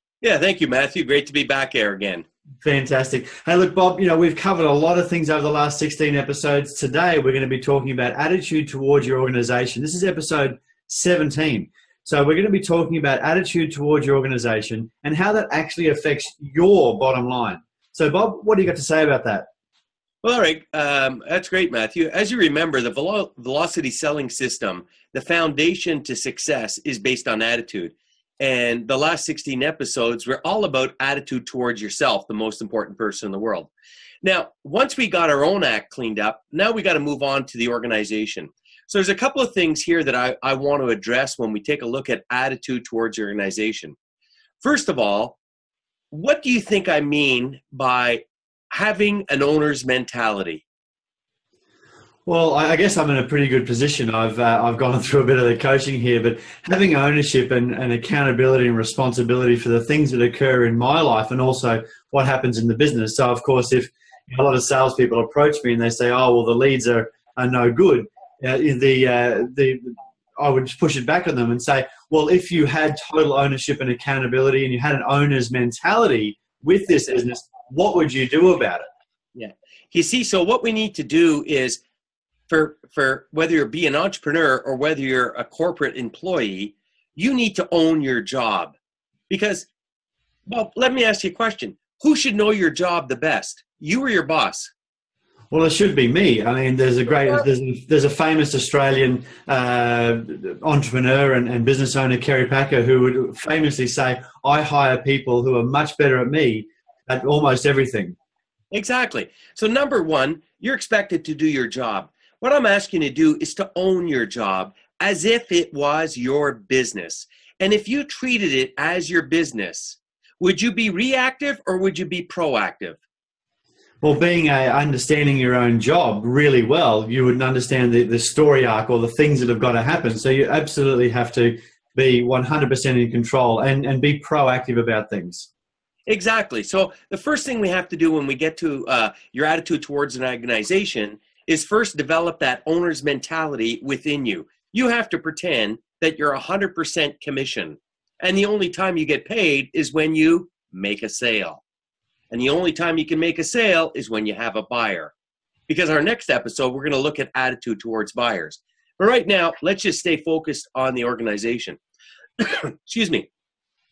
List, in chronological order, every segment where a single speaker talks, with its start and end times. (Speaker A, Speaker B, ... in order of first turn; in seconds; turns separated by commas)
Speaker A: 0.2-2.2, Speaker B: 2.6-19.5, Speaker A: 20.2-33.7, Speaker A: 34.2-44.0, Speaker A: 44.6-45.4, Speaker A: 46.1-50.6, Speaker B: 52.2-78.8, Speaker A: 79.3-81.8, Speaker A: 82.5-88.7, Speaker A: 89.3-89.7, Speaker A: 90.5-94.7, Speaker B: 95.5-108.2, Speaker A: 108.7-123.0, Speaker B: 124.0-135.5, Speaker A: 136.1-151.6, Speaker A: 152.3-155.1, Speaker A: 155.7-161.8, Speaker A: 162.4-163.3